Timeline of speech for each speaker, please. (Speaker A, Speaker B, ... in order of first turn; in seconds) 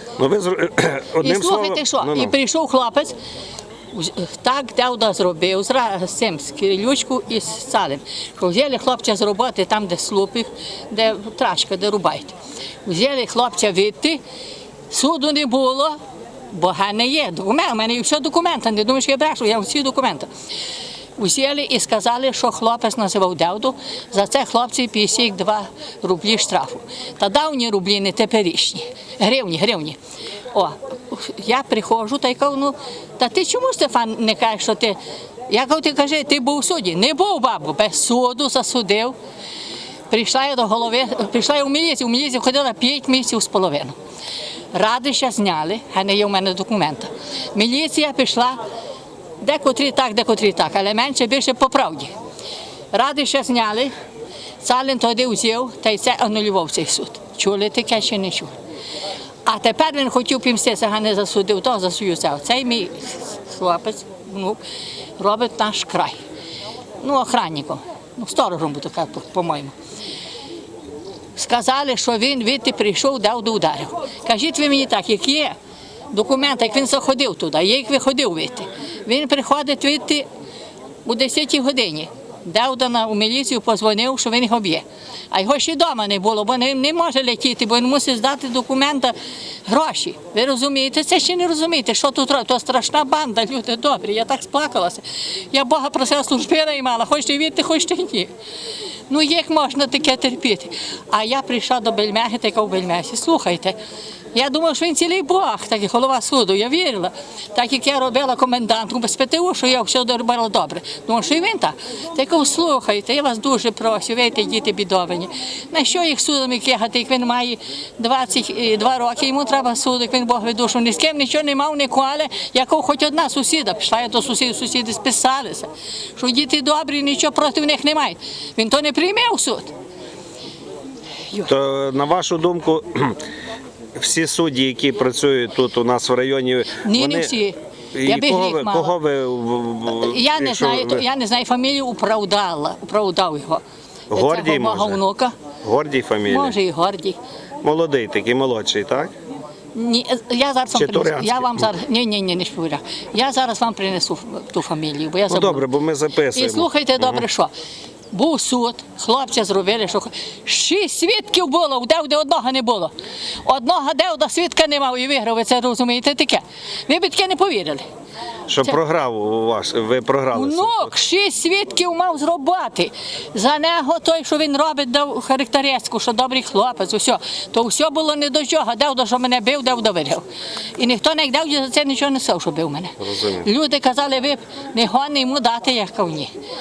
Speaker A: 0.2-2.3, 131.4-133.2, 133.9-137.3, 137.9-141.0, 144.1-145.0, 145.6-146.6, 147.6-149.1, 150.7-151.7, 155.3-157.2, 168.5-170.9, 183.0-183.4
Speaker B: 1.2-3.2, 3.9-14.2, 14.9-16.0, 16.5-20.3, 21.2-30.0, 30.5-39.1, 40.1-44.0, 44.7-48.6, 49.4-52.1, 52.9-53.9, 54.6-58.5, 59.5-64.6, 65.2-66.2, 67.0-69.7, 71.3-75.5, 76.1-80.2, 81.0-89.1, 89.7-98.3, 99.1-103.8, 104.3-129.7, 136.8-138.9, 139.9-143.6, 144.1-145.3, 146.3-147.2, 149.7-155.6, 156.3-157.5, 158.1-162.9, 163.4-167.8, 170.3-180.2, 180.8-186.3